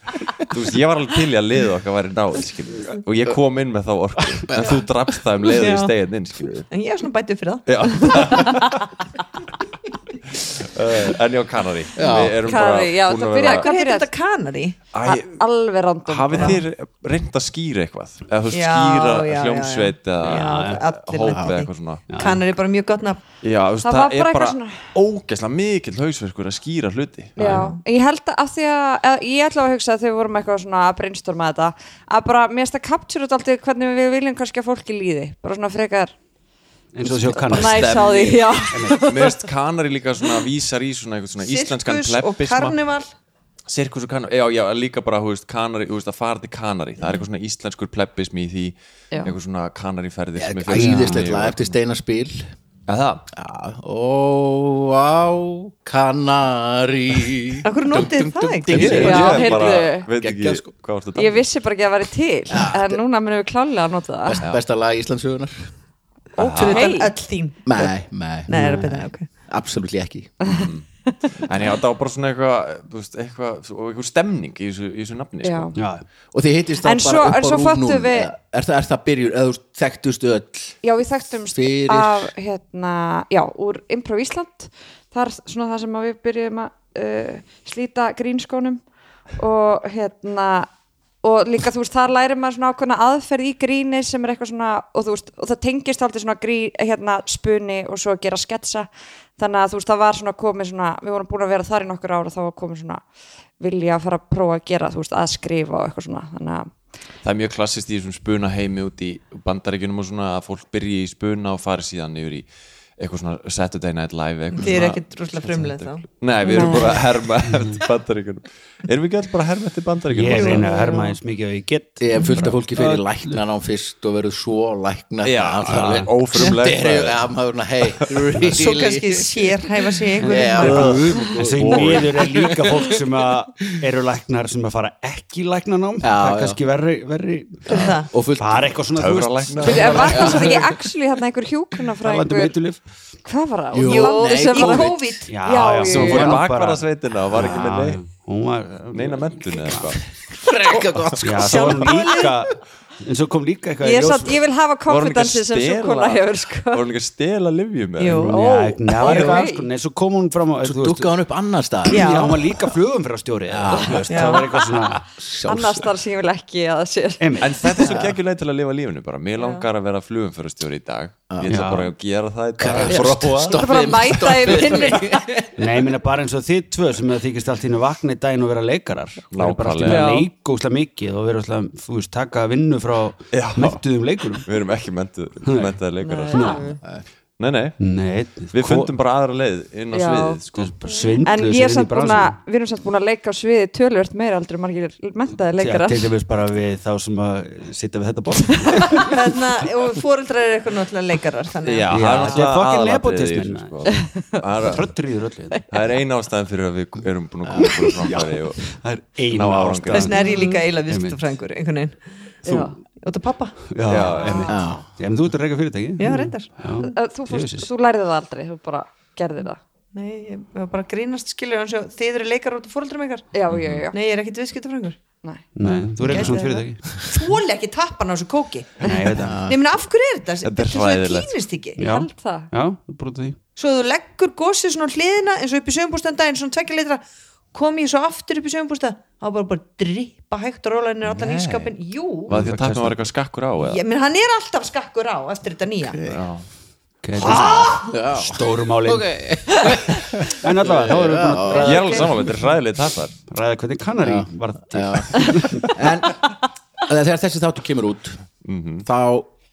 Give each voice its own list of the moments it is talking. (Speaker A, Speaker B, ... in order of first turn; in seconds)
Speaker A: 0.5-6.7, 7.7-8.9, 10.4-13.7, 14.9-15.4, 16.1-22.0, 23.4-27.6, 37.0-38.5, 39.0-42.8, 43.7-51.7, 52.9-53.2, 58.7-61.5, 66.4-67.0, 70.5-70.9, 71.4-75.8, 107.2-112.5, 113.0-120.7, 125.2-127.2, 130.7-132.2, 139.0-140.6, 145.8-148.0, 148.9-150.0, 154.9-158.3, 167.4-173.6, 174.2-175.0, 179.3-180.1, 183.3-186.7, 187.4-187.8, 188.5-190.7, 201.6-204.9, 205.7-208.7, 209.3-210.5, 212.5-212.7, 213.9-214.6, 223.5-223.9, 230.4-231.3, 241.0-241.7, 242.2-243.8, 246.0-246.4, 251.6-253.1, 258.4-258.9
Speaker B: 4.4-4.8, 12.0-12.4, 21.3-21.5, 50.4-52.5, 53.3-60.7, 62.5-63.0, 64.2-65.7, 67.7-70.5, 76.3-80.8, 81.5-82.3, 122.0-129.5, 130.2-132.7, 136.0-136.6, 137.7-138.8, 139.9-140.7, 143.7-145.2, 150.3-152.3, 160.6-162.4, 163.5-164.1, 165.2-165.9, 167.8-168.1, 171.3-171.6, 172.6-175.5, 207.4-207.7, 214.5-214.8, 229.2-229.6, 245.9-246.2, 247.2-252.2, 254.0-258.2, 258.9-259.3
Speaker C: 5.5-5.9, 6.7-8.5, 13.4-14.8, 16.3-16.6, 18.5-23.2, 27.4-27.8, 41.4-43.1, 57.6-59.2, 66.4-67.9, 68.5-69.3, 114.5-117.0, 120.3-121.2, 128.5-131.2, 137.7-138.1, 143.8-145.4, 151.4-152.3, 158.0-158.4, 159.1-159.4, 161.9-162.4, 164.1-164.5, 169.4-169.6, 199.1-202.4, 209.9-212.3, 213.0-214.2, 216.0-216.5, 219.9-223.3, 223.9-225.0, 225.6-231.8, 233.6-242.3, 243.6-246.0
Speaker D: 12.4-14.1, 15.0-16.6, 23.8-24.9, 27.4-36.1, 37.4-39.5, 58.9-60.1, 61.2-64.4, 66.6-67.1, 70.4-70.7, 75.4-75.7, 76.8-78.3, 80.8-88.8, 89.4-90.7, 91.2-103.0, 103.6-106.7, 116.5-117.0, 139.6-142.6, 143.2-146.4, 153.8-156.8, 158.3-159.7, 163.9-164.4, 165.4-167.9, 173.5-175.5, 179.8-180.3, 186.0-186.8, 189.9-190.4, 191.0-196.1, 203.9-204.4, 210.2-210.6, 212.4-212.8, 214.2-214.5, 216.8-219.6, 223.3-224.0, 225.2-225.6, 231.8-232.5, 251.5-252.2
Speaker E: 20.3-20.8, 22.1-22.4, 27.4-27.6, 36.9-38.0, 38.7-39.0, 50.8-51.2, 68.5-68.9, 75.8-76.0, 120.1-123.4, 125.7-126.1, 130.2-140.4, 142.0-142.8, 145.3-149.9, 151.2-154.4, 158.1-161.1, 161.9-165.0, 167.2-167.6, 171.5-171.9, 172.6-173.1, 175.6-184.5, 185.4-185.8, 186.3-186.6, 187.8-188.9, 190.6-192.4, 195.6-199.1, 201.9-204.0, 204.7-205.6, 207.6-211.2, 213.7-217.7, 225.6-226.9, 228.8-229.4, 231.8-233.4, 242.3-243.1, 247.0-249.1, 250.2-251.7, 253.3-255.7